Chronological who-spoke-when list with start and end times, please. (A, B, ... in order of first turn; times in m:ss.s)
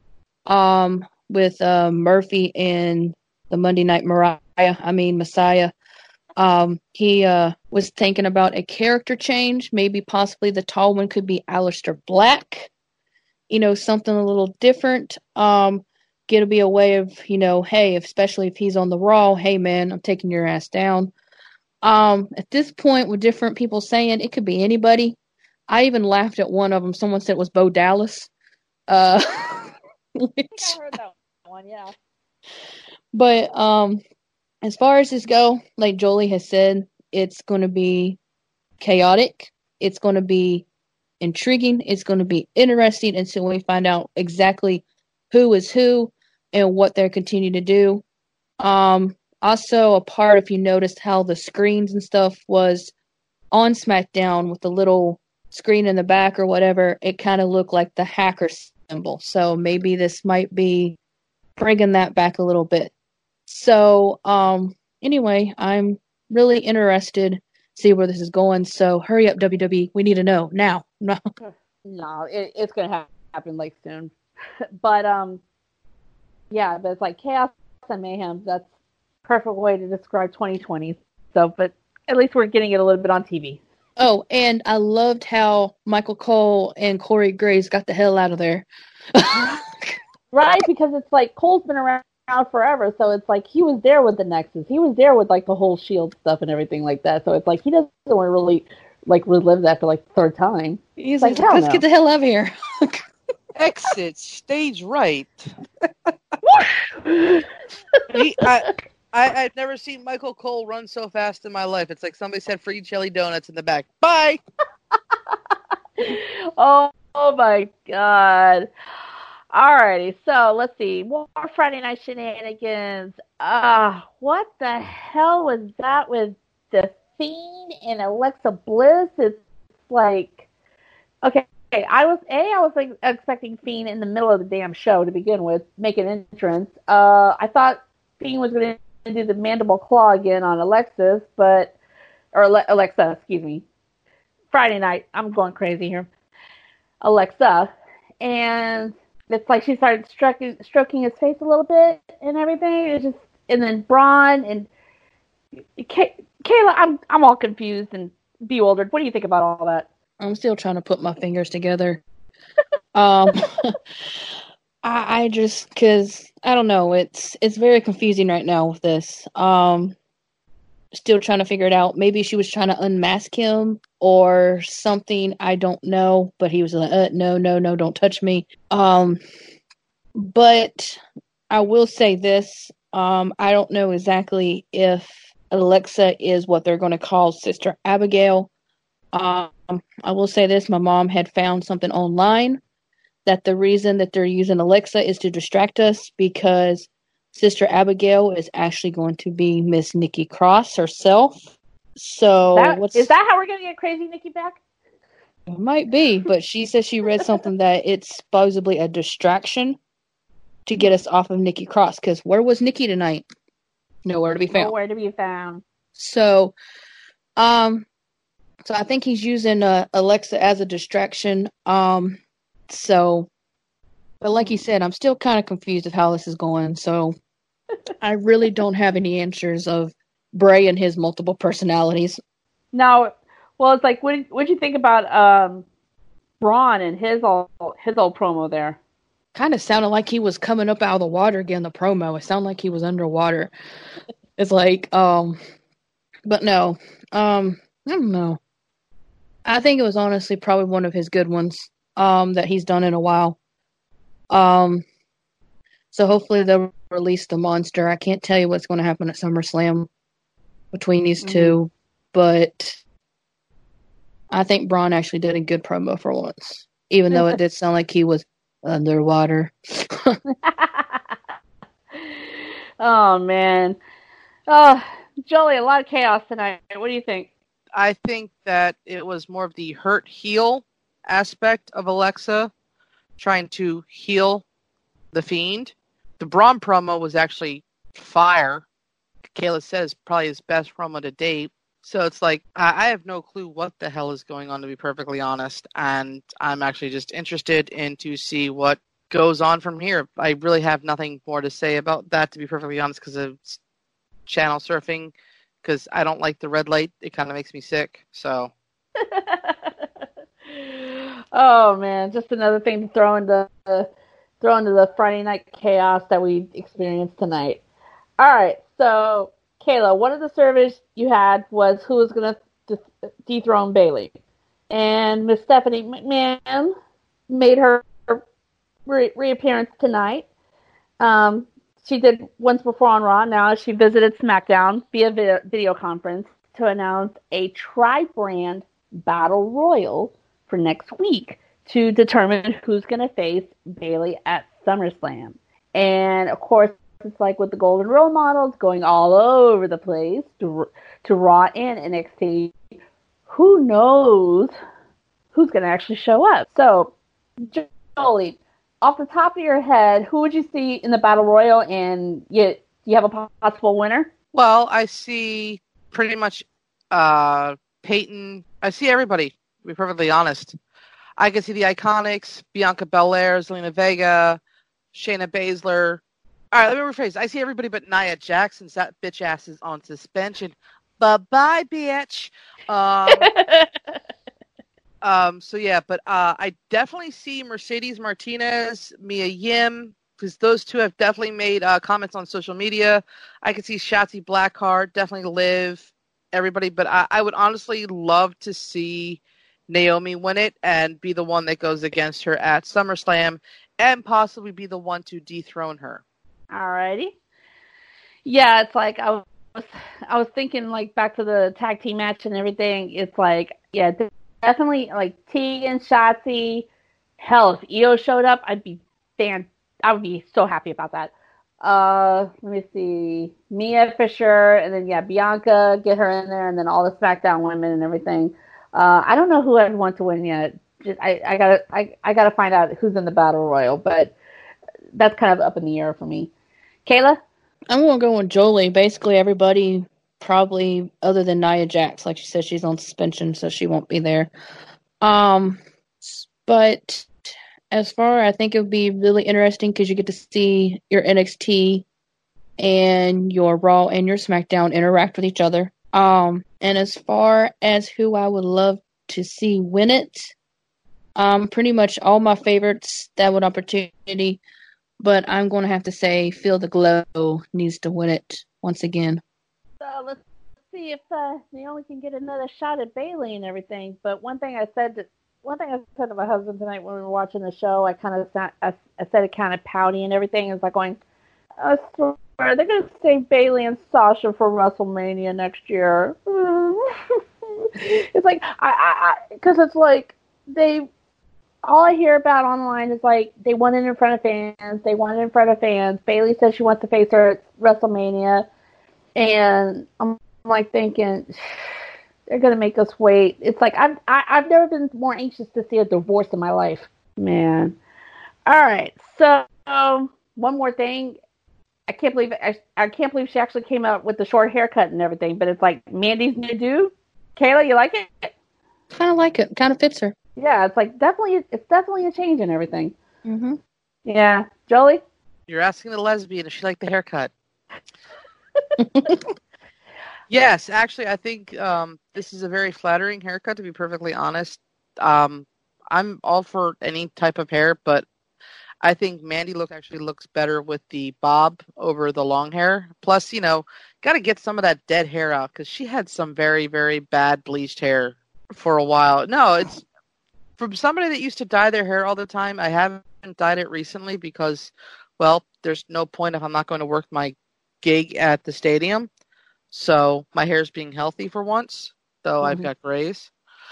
0:00.5-0:05.7 A
0:06.4-0:12.7 A
0:13.5-0:21.1 A
0:21.8-0:25.2 A
0:25.7-0:28.3 A
0:28.9-0:30.7 A
0:30.6-0:31.9 B
0:33.1-0:34.0 A
0:34.6-0:38.2 A
0:38.8-0:40.6 A
0:41.2-0:48.0 A
0:48.6-0:52.9 A
0:53.5-1:01.0 A
1:01.6-1:02.9 A
1:03.5-1:11.2 A
1:11.4-1:14.1 B
1:14.8-1:15.4 B
1:16.5-1:18.7 B
1:19.3-1:23.6 B
1:24.0-1:29.7 A
1:30.3-1:41.8 B
1:41.0-1:43.0 A
1:43.6-1:45.5 C
1:46.4-1:48.4 B
1:48.1-1:54.4 C
1:56.0-1:58.7 B
1:59.5-2:10.4 B
2:11.2-2:21.7 B
2:22.3-2:23.6 B
2:24.5-2:26.1 B
2:27.0-2:27.7 B
2:28.2-2:34.7 B
2:35.8-2:39.9 B
2:40.2-2:42.0 A
2:43.0-2:43.8 A
2:44.8-2:50.0 A
2:50.9-2:59.2 A
3:00.2-3:08.5 A
3:09.1-3:12.6 A
3:13.2-3:21.4 A
3:22.0-3:23.1 A
3:22.5-3:24.6 B
3:25.5-3:29.8 A
3:30.7-3:33.3 A
3:34.0-3:34.7 A
3:34.5-3:35.6 B
3:36.0-3:36.6 A
3:37.4-3:37.9 A
3:38.6-3:43.3 A
3:44.2-3:47.2 A
3:48.0-3:52.2 A
3:52.7-3:55.7 B
3:56.4-3:58.8 B
3:59.3-4:03.5 A
4:04.4-4:05.4 A
4:06.3-4:08.4 A
4:09.4-4:13.4 A
4:14.3-4:14.8 A
4:15.9-4:19.9 A
4:20.7-4:22.8 A
4:21.2-4:21.6 B
4:24.3-4:30.2 A
4:30.4-4:31.1 B
4:31.9-4:33.8 B
4:34.5-4:37.3 B
4:37.7-4:42.5 C
4:43.2-4:44.4 C
4:45.1-4:48.6 C
4:49.3-5:03.6 C
5:04.3-5:08.5 C
5:09.0-5:09.7 B
5:10.5-5:13.9 B
5:14.4-5:17.6 B
5:18.2-5:24.2 B
5:24.7-5:26.7 B
5:27.3-5:28.2 B
5:28.9-5:30.3 B
5:31.0-5:52.5 B
5:53.3-5:54.5 B
5:55.3-6:04.1 B
6:04.3-6:10.6 C
6:11.2-6:14.4 C
6:14.9-6:23.3 C
6:23.1-6:23.9 B
6:25.0-6:46.0 C
6:46.5-6:47.1 B
6:48.2-6:56.7 B
6:57.2-7:14.2 B
7:14.9-7:16.3 B
7:16.9-7:17.2 B
7:17.7-7:24.3 A
7:25.0-7:27.1 A
7:27.7-7:31.8 A
7:32.6-7:40.4 A
7:41.2-7:44.4 A
7:45.0-7:49.2 A
7:49.8-8:01.0 B
8:01.6-8:10.9 B
8:11.6-8:18.5 B
8:19.2-8:21.3 B
8:22.3-8:27.8 B
8:28.5-8:31.2 B
8:31.9-8:38.3 B
8:38.9-8:40.1 A
8:40.4-8:43.0 B
8:43.2-8:43.6 A
8:44.1-8:45.0 B
8:45.5-8:47.3 C
8:48.8-8:49.2 A
8:50.3-8:58.1 C
8:58.8-9:09.8 C
9:10.6-9:19.1 C
9:19.7-9:23.3 C